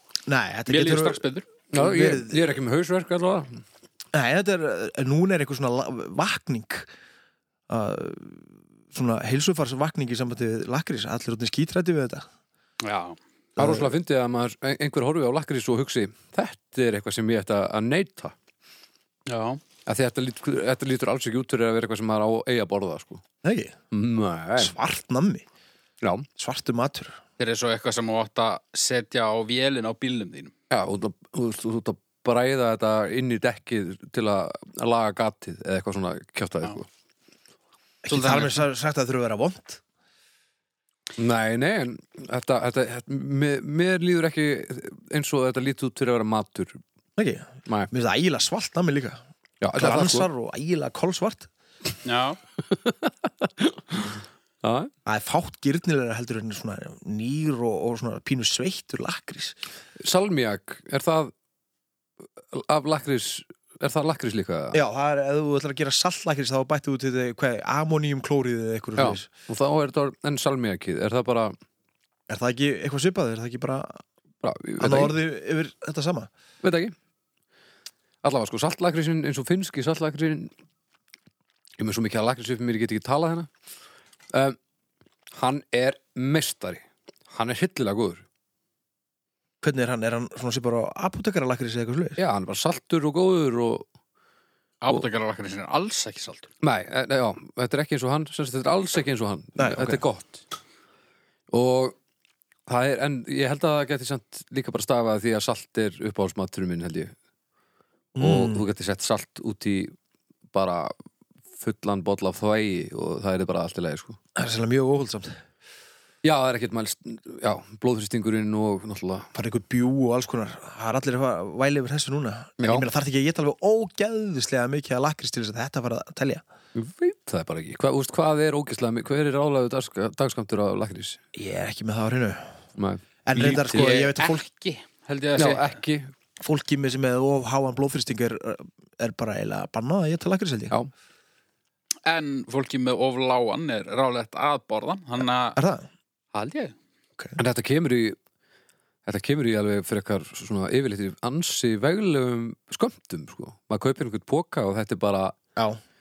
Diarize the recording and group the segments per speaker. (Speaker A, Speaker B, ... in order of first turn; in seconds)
Speaker A: 0.3-1.2, 1.7-2.5, 4.1-6.9, 7.7-12.2, 13.6-13.9, 23.4-23.8, 24.6-25.4, 26.4-27.2, 38.0-39.8, 47.2-49.2, 49.7-51.5, 55.0-59.5, 64.7-69.3, 72.3-74.0, 74.8-76.3, 89.6-92.2, 99.6-100.0, 108.2-108.6, 114.3-115.3, 119.3-126.4, 131.3-132.5, 133.2-134.4, 136.4-140.7, 145.6-145.9
Speaker B: 0.7-1.5, 12.8-13.2, 19.3-19.6, 27.4-30.5, 38.1-38.6, 52.0-52.4, 94.8-96.5, 133.4-135.7, 142.1-145.6, 146.3-146.7
Speaker C: 1.7-3.6, 13.6-18.3, 19.9-23.2, 23.9-24.7, 26.0-26.3, 30.7-36.9, 41.2-46.8, 49.6-50.3, 52.6-54.9, 60.0-61.3, 62.4-64.8, 69.0-71.5, 74.4-75.1, 76.6-76.9, 78.2-80.5, 81.8-83.5, 84.3-84.6, 85.3-88.2, 92.2-93.9, 96.6-100.4, 101.5-102.0, 102.7-107.1, 108.2-109.9, 110.5-110.9, 111.6-114.2, 116.2-119.3, 122.6-122.9, 126.7-131.2, 132.8-133.9, 135.4-136.1, 147.4-148.2, 149.1-155.3